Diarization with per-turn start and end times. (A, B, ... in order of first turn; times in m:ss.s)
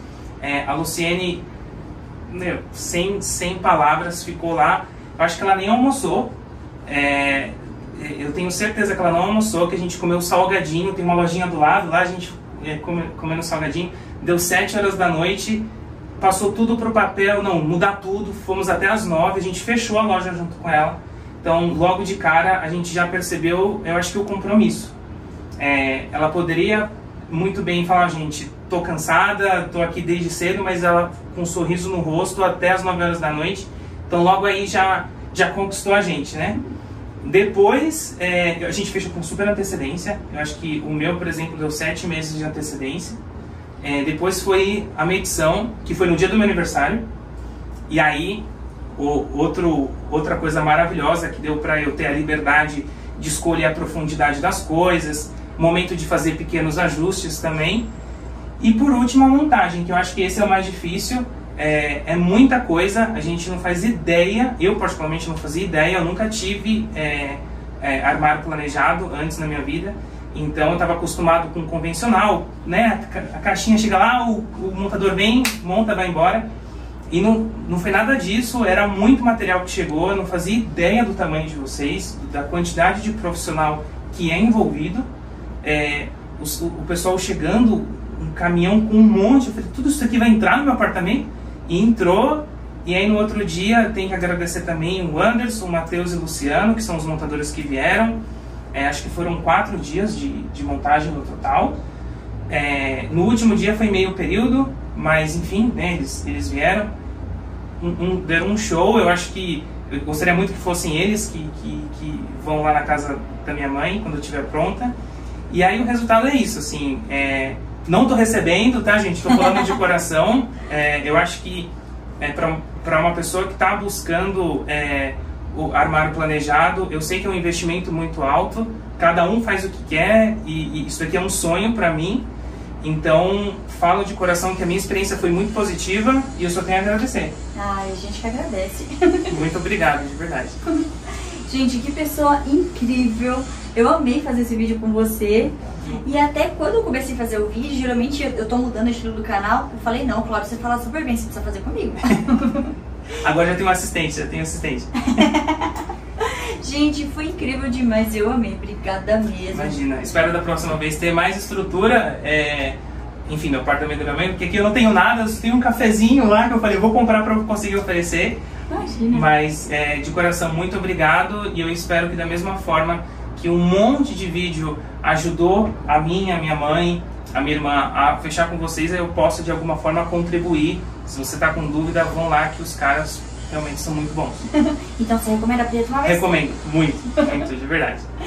0:00.4-0:01.4 A
0:02.3-0:06.3 A
0:06.9-0:15.6 A
0:16.2-0:24.9 A
0:25.6-0:36.6 A
0:37.2-0:43.2 A
0:43.8-0:47.0 A
0:47.9-0:57.9 A
0:58.6-1:16.4 A
1:17.1-1:25.1 A
1:25.6-1:38.2 A
1:38.7-1:41.8 A
1:42.5-1:46.9 A
1:47.8-1:54.9 A
1:55.5-2:12.2 A
2:12.8-2:17.3 A
2:17.6-2:19.3 B
2:19.3-2:20.6 A
2:21.5-2:32.7 B
2:33.2-2:35.2 A
2:35.2-2:39.8 B
2:39.5-2:48.4 A
2:48.7-2:49.3 B
2:49.1-3:04.4 A
3:05.0-3:06.3 B
3:06.0-3:08.0 A